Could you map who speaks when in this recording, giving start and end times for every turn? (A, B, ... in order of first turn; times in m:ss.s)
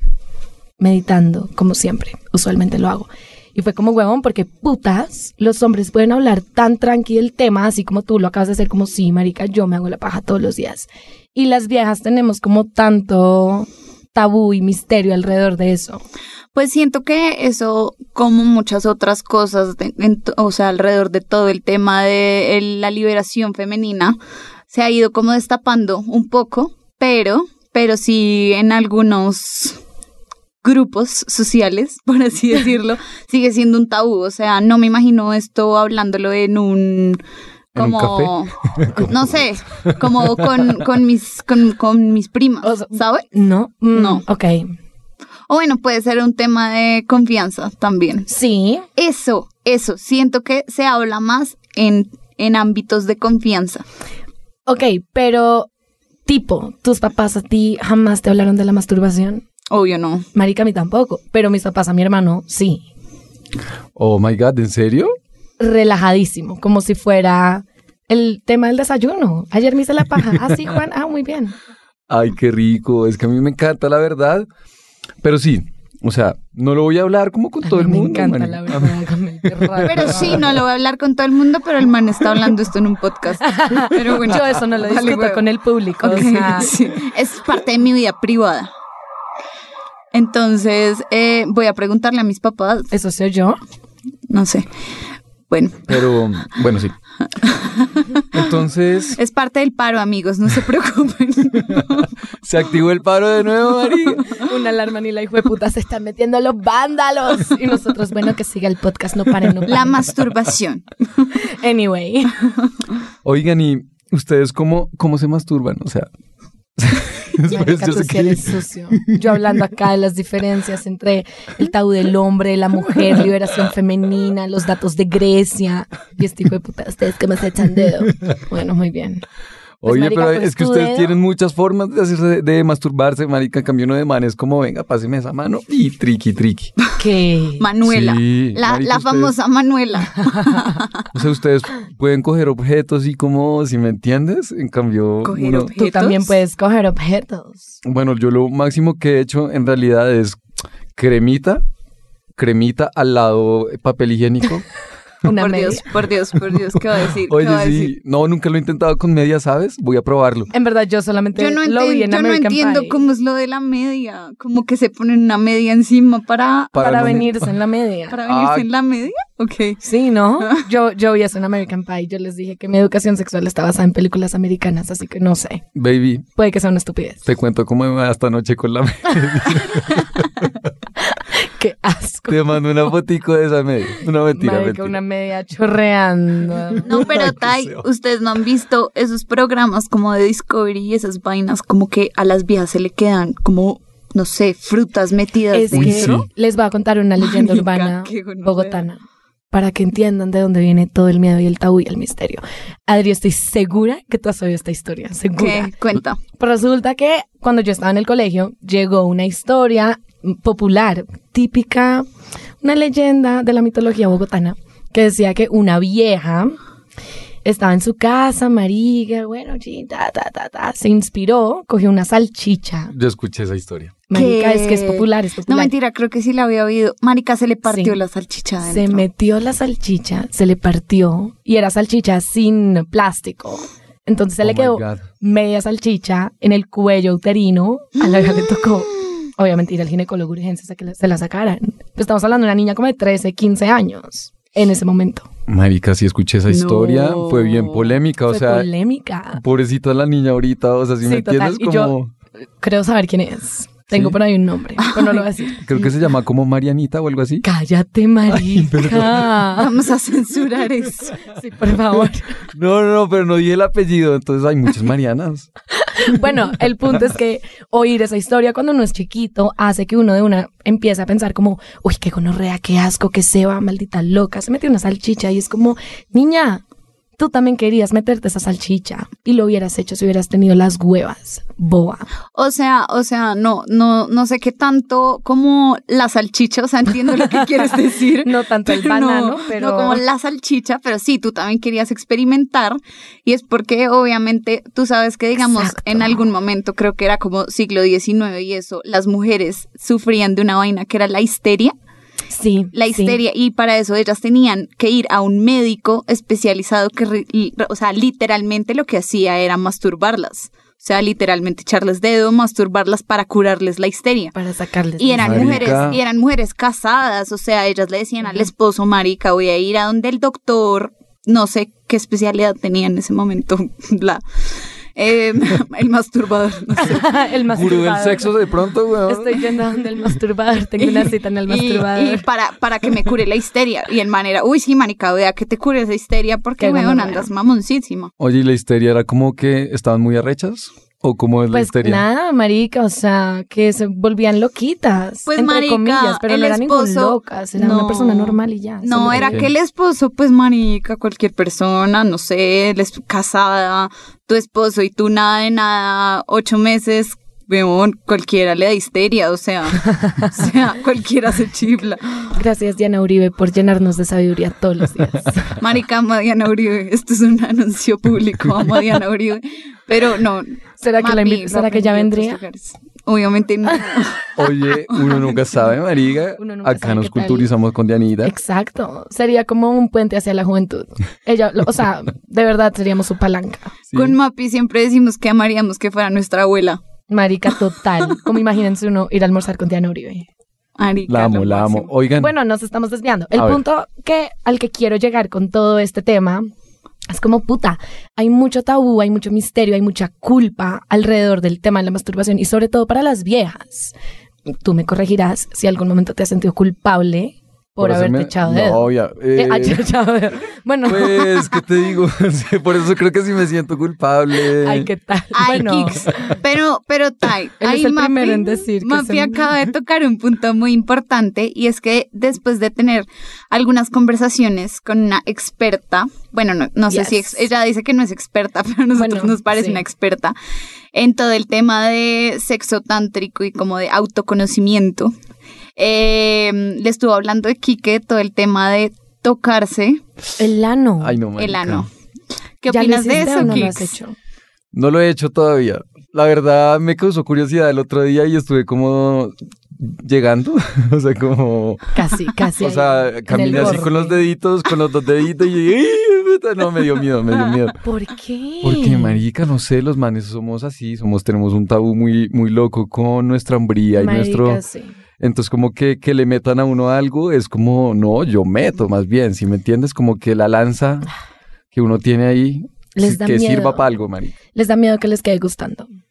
0:00.8-0:16.0 A
0:16.5-0:24.2 B
0:24.7-0:29.8 B
0:30.6-0:37.2 B
0:37.7-0:39.2 C
0:37.7-0:43.3 B
0:39.8-0:40.6 C
0:42.6-0:44.7 A
0:43.9-0:44.2 B
0:45.5-0:48.3 B
0:48.3-0:48.9 A
0:49.0-0:53.8 B
0:54.7-0:55.7 A
0:56.2-0:59.4 A
0:59.7-1:00.3 B
1:00.3-1:02.8 A
1:04.0-1:05.1 C
1:05.6-1:11.6 A
1:12.1-1:14.5 C
1:15.2-1:20.4 C
1:17.6-1:20.4 A
1:19.8-1:25.5 B
1:23.4-1:26.8 A
1:26.0-1:28.7 B
1:30.1-1:32.9 B
1:32.9-1:33.6 A
1:34.3-1:34.7 B
1:35.5-1:35.9 B
1:35.9-1:36.9 C
1:37.4-1:38.5 B
1:38.3-1:39.2 C
1:39.2-1:42.1 B
1:42.4-1:44.2 C
1:44.3-1:50.1 A
1:49.6-1:51.3 B
1:51.4-1:52.5 A
1:53.2-1:56.1 C
1:56.8-1:59.2 C
1:57.4-2:09.2 A
2:09.8-2:16.7 C
2:09.8-2:11.2 A
2:17.0-2:17.6 A
2:17.6-2:21.0 B
2:17.8-2:19.3 C
2:20.2-2:20.6 A
2:21.1-2:25.7 C
2:25.2-2:26.3 B
2:25.7-2:27.7 A
2:27.8-2:30.4 C
2:31.0-2:31.6 C
2:32.4-2:34.6 C
2:35.2-2:35.8 A
2:35.4-2:37.9 B
2:37.2-2:40.5 C
2:40.5-2:43.0 A
2:41.4-2:47.2 B
2:46.7-2:47.5 C
2:46.7-2:48.2 A
2:48.1-2:49.8 B
2:48.2-2:48.7 C
2:49.8-2:55.6 A
2:55.7-2:56.2 C
2:56.3-2:57.2 A
2:57.2-3:00.6 C
3:01.0-3:02.6 A
3:02.3-3:05.0 C
3:04.3-3:07.1 A
3:06.8-3:16.2 B
3:06.9-3:07.8 C
3:15.5-3:19.0 A
3:15.7-3:16.3 C
3:17.2-3:18.8 B
3:19.5-3:25.7 A
3:25.4-3:26.2 B
3:26.4-3:32.0 A
3:32.6-3:36.6 A
3:37.4-3:42.9 A
3:42.9-3:43.9 C
3:44.1-3:45.7 A
3:44.1-3:49.0 B
3:47.7-3:47.9 A
3:48.6-4:05.3 A
3:54.4-3:55.0 C
4:05.5-4:08.7 C
4:06.5-4:08.0 B
4:08.3-4:09.4 A
4:09.3-4:12.1 C
4:11.0-4:11.9 A
4:12.6-4:15.6 A
4:13.9-4:14.2 C
4:14.8-4:15.9 B
4:15.6-4:17.4 C
4:17.4-4:19.7 A
4:18.3-4:19.3 C
4:19.5-4:21.1 B
4:21.2-4:22.3 A
4:22.5-4:25.5 C
4:25.7-4:36.6 A
4:37.2-4:42.1 A
4:42.3-5:01.7 B
4:48.2-4:50.0 A
4:55.4-4:56.2 A
5:02.3-5:03.2 A
5:02.7-5:14.3 B
5:14.3-5:15.9 A
5:15.0-5:24.2 B
5:15.2-5:16.0 C
5:25.0-5:27.1 B
5:26.8-5:28.3 A
5:27.5-5:29.5 C
5:29.1-5:32.2 A
5:30.8-5:38.1 B
5:36.6-5:37.3 A
5:38.2-5:42.0 C
5:41.5-5:49.5 A
5:45.3-6:02.3 B
5:49.0-5:49.5 C
6:00.0-6:00.4 A
6:02.3-6:05.6 A
6:05.6-6:15.4 B
6:10.8-6:12.4 A
6:14.4-6:18.3 C
6:16.4-6:17.5 A
6:18.2-6:23.7 A
6:23.9-6:24.2 C
6:23.9-6:26.8 B
6:27.1-6:30.3 A
6:30.8-6:31.9 B
6:31.1-6:32.3 C
6:32.2-6:36.5 A
6:33.3-6:33.6 C
6:37.1-6:43.9 A
6:44.5-6:51.5 A
6:47.8-6:49.8 C
6:50.8-6:54.9 C
6:54.6-6:56.4 A
6:55.3-7:10.3 B
6:57.6-6:59.5 A
7:06.9-7:07.4 A
7:09.0-7:09.8 A
7:10.9-7:15.1 B
7:15.8-7:20.0 B
7:20.4-7:21.2 A
7:21.0-7:21.9 C
7:21.4-7:21.9 B
7:22.6-7:23.9 B
7:22.7-7:24.2 A
7:24.7-7:32.0 C
7:31.9-7:34.2 A
7:32.6-7:37.8 C
7:37.8-7:39.2 A
7:38.6-7:44.6 C
7:43.9-7:44.9 A
7:45.2-7:51.1 C
7:51.7-7:54.3 C
7:52.9-7:53.9 A
7:54.5-7:55.9 A